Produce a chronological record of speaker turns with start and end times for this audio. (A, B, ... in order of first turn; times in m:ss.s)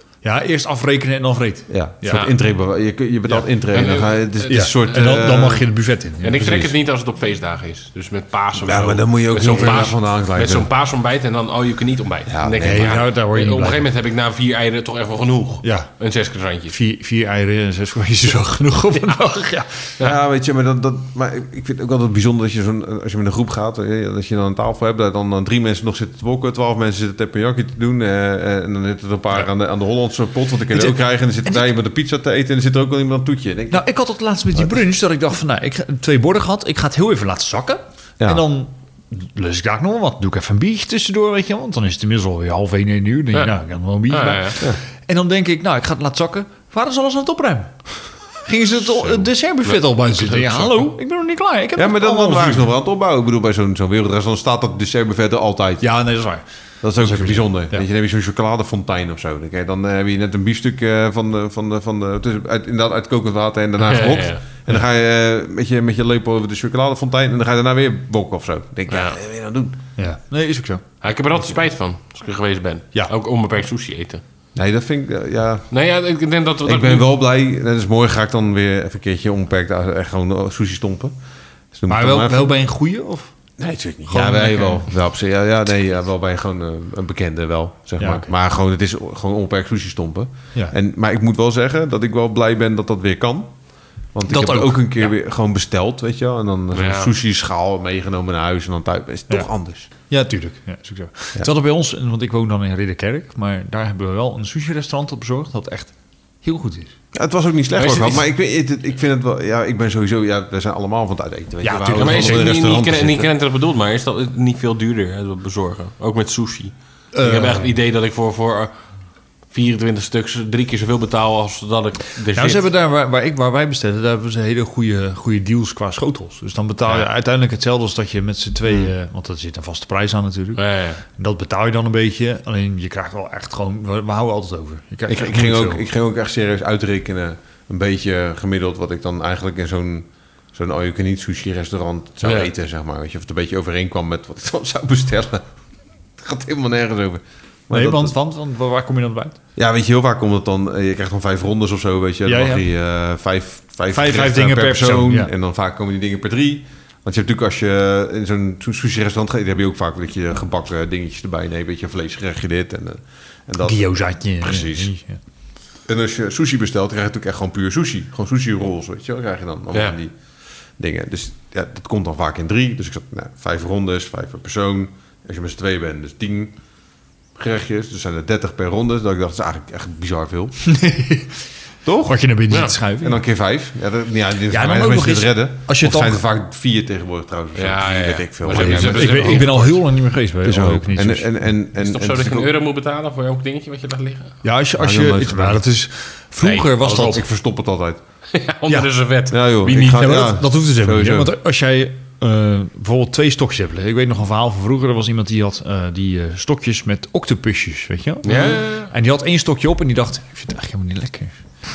0:00.2-0:02.3 A
0:01.7-0:05.6 B
0:02.1-0:02.3 C
0:03.7-0:04.9 C
0:04.5-0:06.7 A
0:06.2-0:16.8 C
0:08.6-0:10.7 B
0:12.2-0:13.0 B
0:12.6-0:13.8 A
0:15.6-0:15.9 A
0:16.7-0:20.0 A
0:20.0-0:33.8 B
0:30.7-0:31.7 A
0:33.7-0:52.7 A
0:44.1-0:44.6 C
0:49.0-0:50.9 C
0:51.8-0:55.8 B
0:55.8-0:57.8 A
0:56.8-1:09.8 B
1:03.8-1:04.4 C
1:08.9-1:09.2 C
1:10.0-1:10.8 A
1:11.0-1:14.2 C
1:14.5-1:15.7 B
1:15.7-1:17.0 C
1:16.6-1:21.1 B
1:21.7-1:22.5 B
1:21.9-1:23.3 A
1:23.6-1:33.6 B
1:24.1-1:24.8 A
1:28.0-1:28.3 A
1:34.1-1:39.9 B
1:34.3-1:35.1 A
1:36.7-1:37.1 C
1:39.3-1:46.9 A
1:47.1-1:53.3 B
1:47.8-1:48.2 C
1:51.6-1:52.5 A
1:52.0-1:58.7 C
1:57.1-1:57.7 A
1:59.5-2:02.6 C
2:02.3-2:15.8 A
2:10.6-2:11.0 C
2:15.1-2:25.5 B
2:22.2-2:22.5 C
2:26.2-2:28.1 B
2:27.7-2:29.4 A
2:29.6-2:44.9 B
2:32.2-2:32.6 A
2:33.9-2:35.3 A
2:43.6-2:45.2 A
2:45.8-2:50.1 B
2:50.8-2:56.5 B
2:57.3-3:00.6 B
3:00.6-3:01.5 A
3:01.8-3:02.2 B
3:02.0-3:03.2 A
3:02.5-3:02.7 C
3:03.0-3:09.6 B
3:04.5-3:06.2 A
3:07.5-3:09.8 C
3:08.5-3:11.3 A
3:10.4-3:12.5 B
3:11.8-3:14.4 C
3:14.4-3:17.2 A
3:14.8-3:15.6 B
3:16.4-3:17.2 C
3:17.0-3:18.0 B
3:18.3-3:20.3 C
3:19.3-3:21.3 B
3:19.8-3:31.4 A
3:28.2-3:28.9 C